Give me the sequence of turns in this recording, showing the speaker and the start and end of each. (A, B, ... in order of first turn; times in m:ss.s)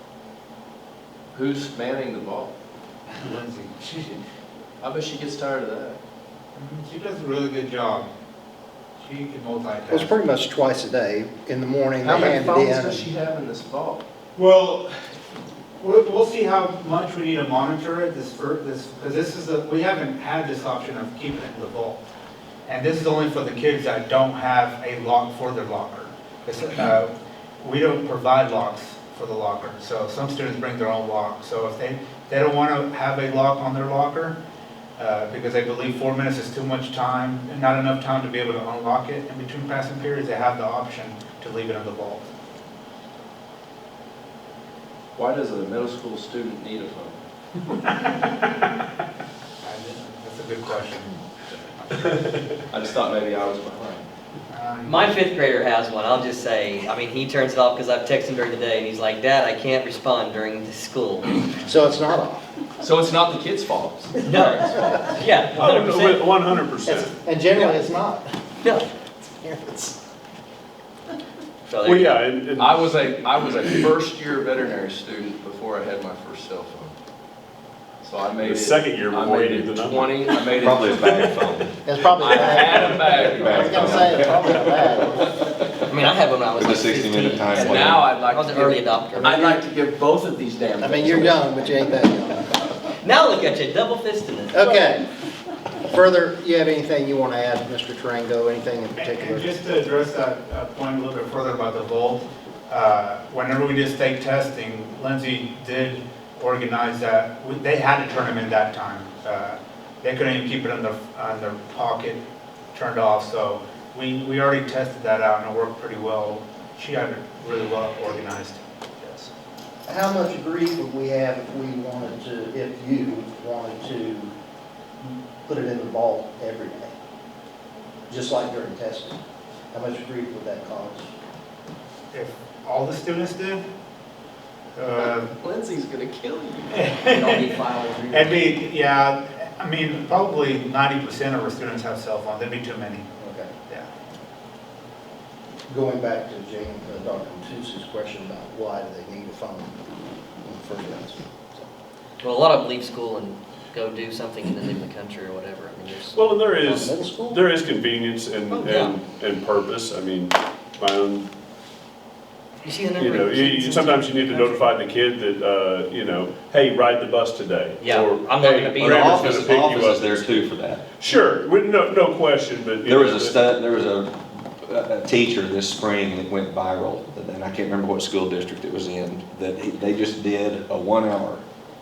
0:01.3-0:02.5 A
0:03.1-0:04.2 B
0:04.8-0:06.0 A
0:06.5-0:08.1 B
0:09.0-0:10.1 B
0:09.9-0:13.1 C
0:12.0-0:14.0 A
0:14.4-0:14.9 B
0:15.8-0:22.0 B
0:22.7-0:34.4 B
0:35.0-0:42.3 B
0:45.2-0:47.2 A
0:48.1-0:48.5 B
0:49.6-0:51.2 B
0:51.8-0:52.4 B
0:52.7-0:54.1 A
0:54.5-0:55.0 B
0:54.8-1:01.4 D
1:01.7-1:02.5 C
1:02.8-1:04.8 A
1:04.2-1:06.2 D
1:05.5-1:07.1 E
1:06.8-1:08.2 C
1:08.6-1:08.9 D
1:09.4-1:09.9 D
1:11.6-1:12.2 D
1:11.8-1:13.0 E
1:12.6-1:16.9 A
1:18.0-1:21.3 A
1:18.4-1:21.4 E
1:20.6-1:21.7 F
1:21.8-1:25.3 C
1:22.1-1:24.6 A
1:23.3-1:24.4 F
1:25.8-1:29.6 D
1:26.6-1:28.1 F
1:27.5-1:31.7 A
1:29.2-1:29.4 C
1:30.8-1:32.5 C
1:33.0-1:34.7 D
1:34.5-1:35.0 C
1:35.8-1:39.5 C
1:39.0-1:59.3 B
1:59.9-2:04.3 C
2:05.4-2:06.9 C
2:08.1-2:09.2 C
2:09.7-2:11.1 C
2:12.1-2:13.6 B
2:14.8-2:15.3 B
2:15.0-2:18.5 A
2:16.7-2:17.5 B
2:18.1-2:23.1 B
2:23.2-2:23.5 C
2:25.7-2:29.7 C
2:30.4-2:31.7 C
2:32.2-2:36.2 D
2:36.1-2:41.3 E
2:36.5-2:37.4 C
2:38.5-2:39.0 D
2:42.6-2:44.7 D
2:43.0-2:53.4 E
2:47.8-2:49.5 D
2:48.8-2:51.0 F
2:52.8-3:01.4 F